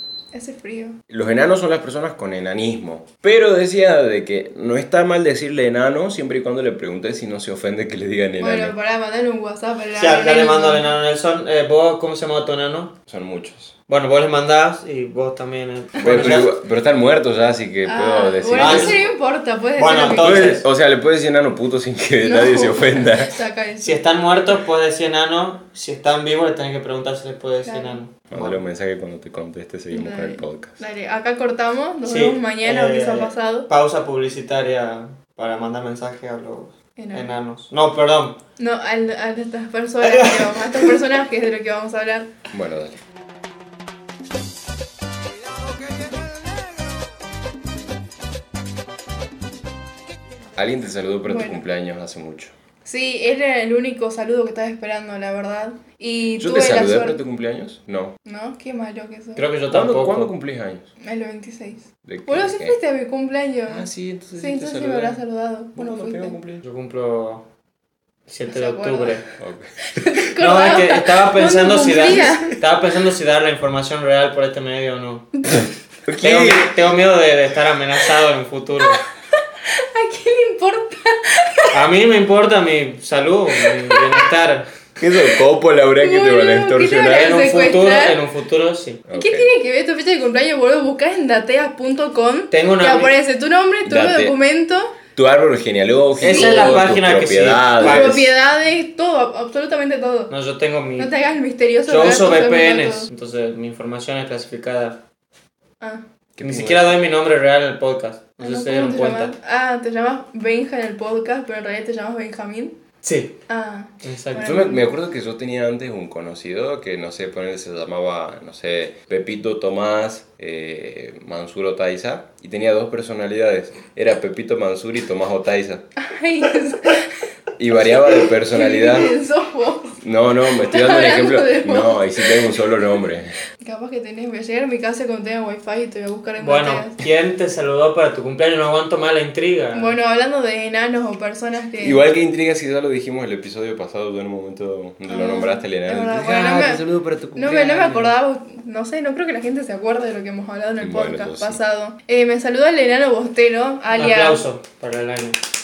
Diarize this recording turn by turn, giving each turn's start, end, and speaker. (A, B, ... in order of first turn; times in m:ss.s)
0:00.3-0:01.0 A
0:01.1-0:08.7 B
0:08.4-0:10.9 A
0:10.0-0:12.9 C
0:13.1-0:13.7 B
0:13.9-0:16.6 C
0:16.0-0:19.0 B
0:17.9-0:20.6 A
0:18.6-0:19.1 C
0:19.8-0:20.6 C
0:20.1-0:23.4 B
0:22.2-0:24.0 A
0:23.8-0:28.6 C
0:27.6-0:28.0 A
0:28.3-0:30.7 B
0:29.9-0:33.7 A
0:32.1-0:38.4 C
0:37.0-0:37.3 A
0:38.6-0:42.3 A
0:40.0-0:40.6 C
0:42.5-0:43.0 B
0:50.6-0:52.5 B
0:51.2-0:51.6 A
0:52.8-0:57.2 A
0:56.4-0:58.1 B
0:58.2-0:59.4 A
0:59.4-1:00.3 C
0:59.7-1:00.9 B
1:01.0-1:06.4 A
1:02.0-1:02.7 B
1:03.7-1:05.2 B
1:05.8-1:06.6 B
1:06.6-1:07.4 C
1:08.3-1:09.2 C
1:08.5-1:09.2 A
1:09.4-1:09.7 B
1:09.9-1:12.6 A
1:10.4-1:15.4 C
1:16.1-1:16.7 B
1:16.2-1:19.0 C
1:18.9-1:21.8 A
1:21.7-1:24.6 C
1:23.6-1:24.2 A
1:25.0-1:27.4 B
1:26.0-1:28.2 A
1:27.1-1:29.0 C
1:29.1-1:29.5 B
1:29.1-1:35.0 A
1:32.5-1:33.1 C
1:33.8-1:34.4 B
1:35.1-1:38.2 B
1:36.2-1:38.2 C
1:36.2-1:36.9 A
1:37.8-1:40.3 A
1:40.3-1:41.1 C
1:41.0-1:43.1 A
1:41.9-1:45.0 C
1:46.4-1:47.0 B
1:46.4-1:49.3 C
1:48.4-1:52.8 A
1:53.0-1:53.4 C
1:53.5-1:54.8 A
1:54.0-1:54.6 C
1:54.4-2:05.8 B
2:06.0-2:07.1 A
2:07.6-2:09.1 B
2:08.1-2:10.0 A
2:10.0-2:13.4 B
2:10.6-2:12.6 A
2:13.6-2:17.0 A
2:16.4-2:20.0 C
2:19.7-2:22.0 A
2:21.8-2:28.1 B
2:25.1-2:26.8 A
2:27.4-2:34.4 A
2:30.8-2:31.6 B
2:33.9-2:35.4 C